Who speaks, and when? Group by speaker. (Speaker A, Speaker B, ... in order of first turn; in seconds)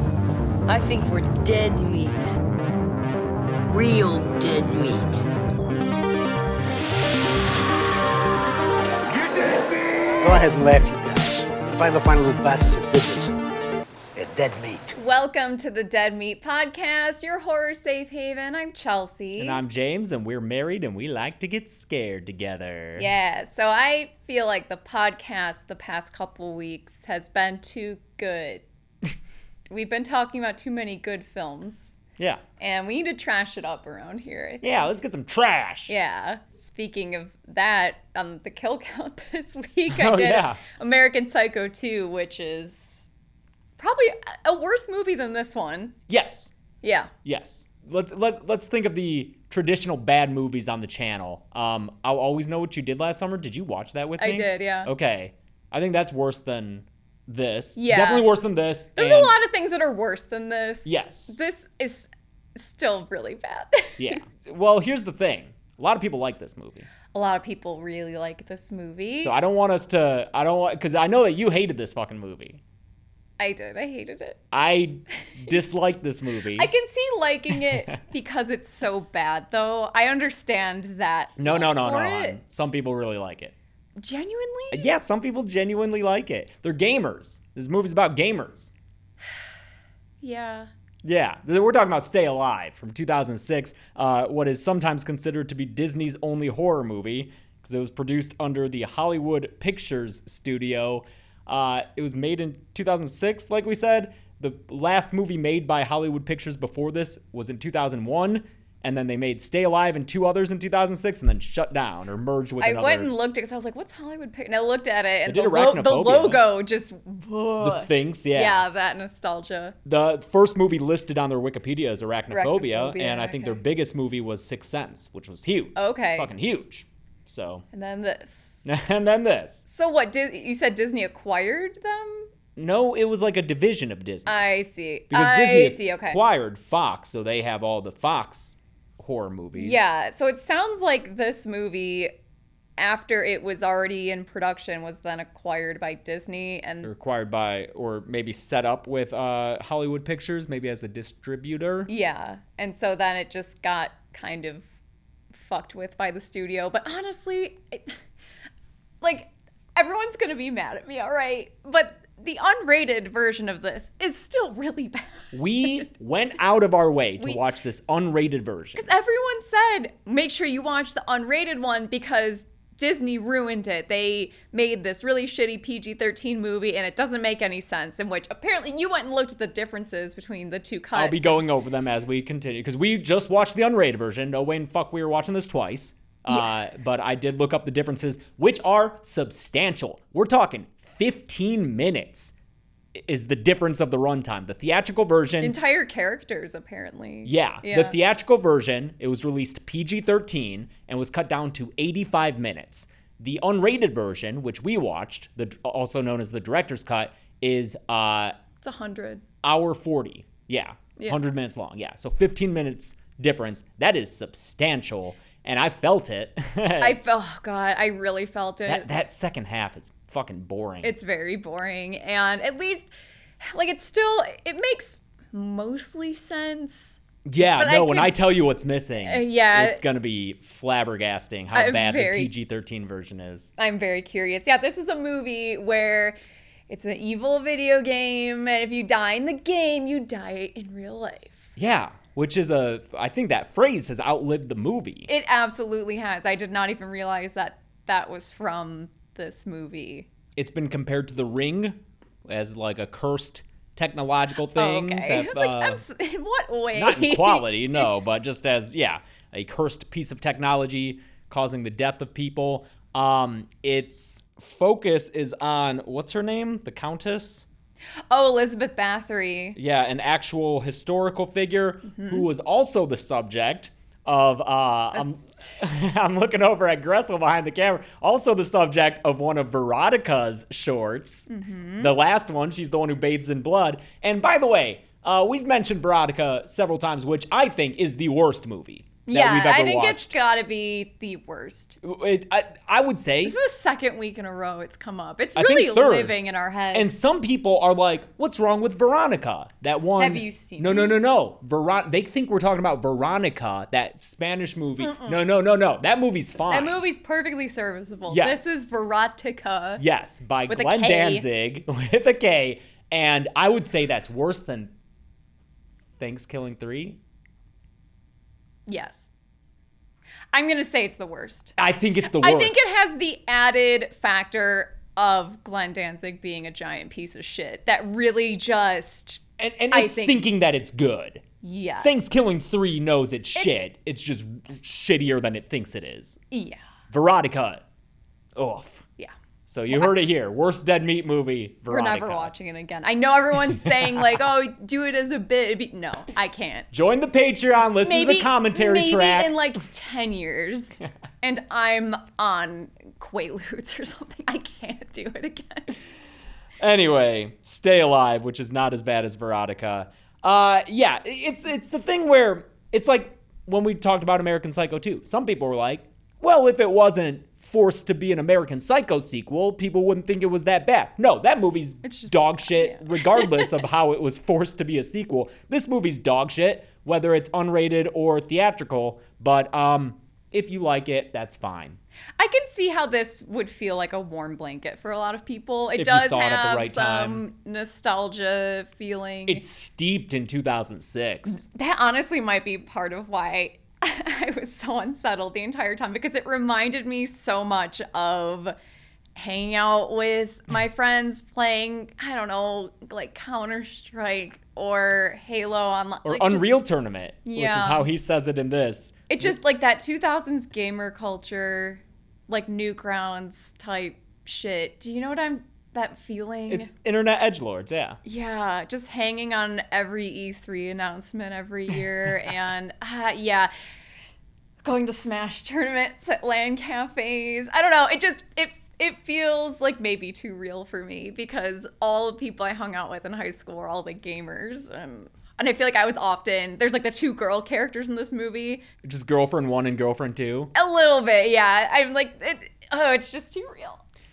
Speaker A: 0.7-2.4, 3.7-5.3
Speaker B: 9.1-13.3, 14.1-14.9
Speaker C: 14.9-19.6, 23.0-28.6, 29.7-32.0, 32.6-35.0, 35.9-43.1, 43.8-45.9, 46.8-47.1, 54.2-54.9, 57.8-58.3, 58.9-64.2, 67.1-69.3, 73.4-74.4, 76.5-82.4, 84.0-84.9, 90.2-90.7, 112.6-119.8, 122.3-123.6, 125.8-126.3, 127.7-128.7, 129.7-132.3, 134.3-136.2, 139.5-142.1, 142.8-146.9, 151.9-154.7, 155.3-157.9, 159.0-165.8, 168.7-181.4, 195.4-197.9, 208.6-209.2, 216.8-218.9, 220.8-222.9, 223.4-228.1, 229.0-229.8, 231.5-232.3, 233.6-236.2, 236.7-241.5, 245.1-250.1, 254.5-257.9, 268.1-269.6, 271.9-272.2, 274.9-275.6, 281.3-281.9, 289.1-291.8, 293.2-296.9, 300.0-301.0, 304.8-305.2, 306.5-309.8, 310.5-311.2, 318.7-319.1, 320.3-330.2, 331.4-332.3, 336.3-336.6, 341.7-346.7, 347.8-355.8, 371.8-373.6, 382.2-389.4, 391.3-398.5, 399.1-406.5, 407.2-407.9, 409.1-416.7, 418.0-423.5, 424.6-438.6, 440.5-443.8
Speaker D: 19.4-23.1, 34.6-35.9, 39.9-40.6, 46.1-46.5, 47.2-59.3, 60.8-61.4, 64.0-66.9, 69.2-72.6, 74.5-76.7, 77.5-78.0, 81.4-83.5, 84.7-88.7, 91.0-113.1, 115.2-116.4, 117.6-118.7, 119.8-127.6, 128.7-129.6, 132.6-134.4, 135.1-139.9, 146.8-151.9, 165.3-168.9, 180.9-192.3, 192.9-195.6, 197.2-208.3, 209.4-217.0, 218.7-220.9, 227.2-233.5, 241.6-245.1, 250.3-255.8, 256.7-267.4, 269.6-281.3, 281.8-290.1, 291.8-293.4, 295.3-296.1, 296.7-306.8, 308.1-308.5, 309.8-314.7, 316.0-317.0, 321.6-322.6, 329.4-331.2, 331.8-336.2, 336.9-337.6, 338.3-338.8, 339.5-342.3, 346.7-349.6, 356.6-381.8, 385.7-387.2, 389.2-391.4, 406.0-409.4, 416.5-418.0, 438.8-440.5